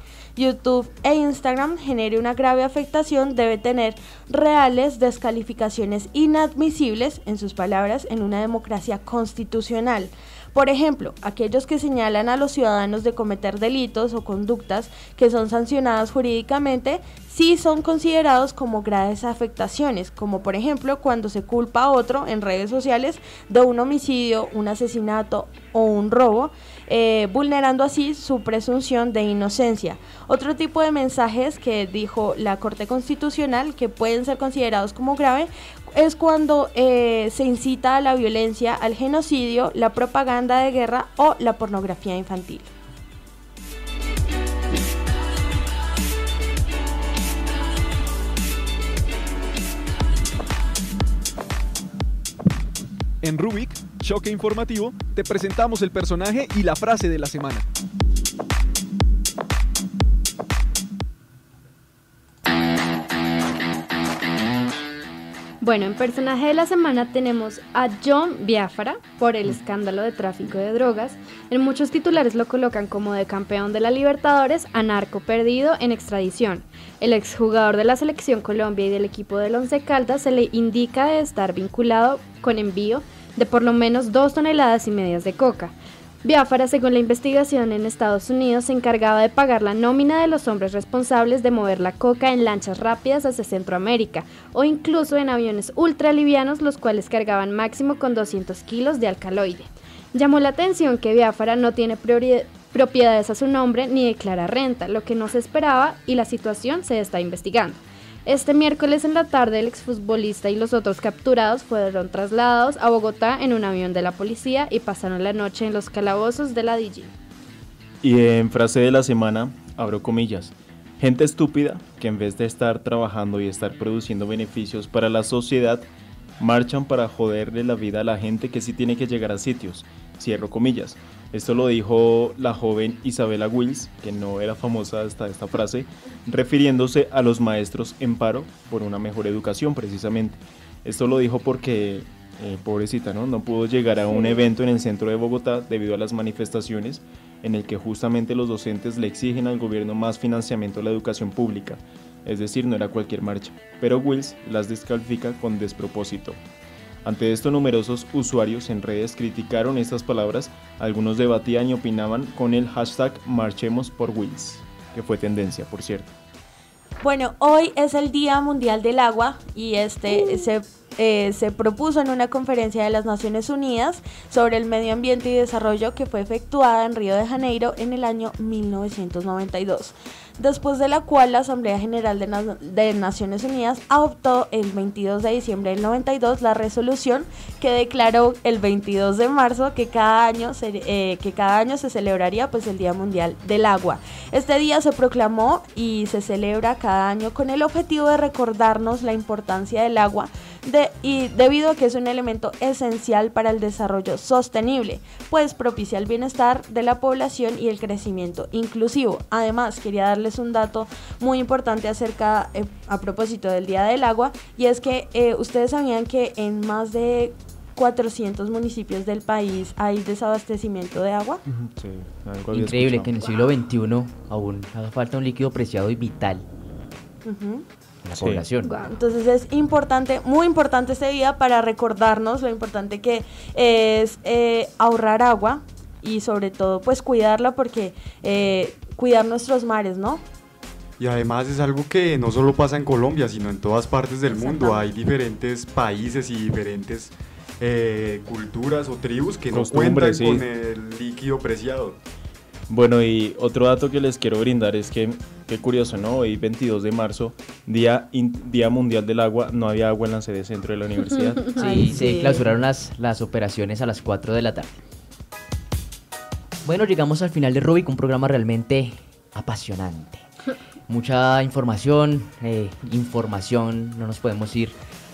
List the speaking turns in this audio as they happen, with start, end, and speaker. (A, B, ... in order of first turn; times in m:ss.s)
0:00.4-0:42.7 A
0:53.2-0:57.6 B
1:05.6-1:57.1 C
1:58.0-2:05.8 D
2:06.4-2:36.4 D
2:37.0-2:46.1 D
2:47.0-3:41.4 A
3:41.5-3:43.2 D
3:42.5-3:46.4 E
3:47.2-3:47.6 A
3:48.0-3:48.7 E
3:48.2-3:48.4 D
3:48.6-3:48.9 C
3:48.9-4:00.2 A
4:01.0-4:12.0 F
4:04.4-4:04.8 A
4:09.5-4:10.4 D
4:12.7-4:21.9 D
4:21.5-4:22.5 A
4:21.6-4:24.7 E
4:26.6-4:30.2 E
4:30.9-4:34.8 E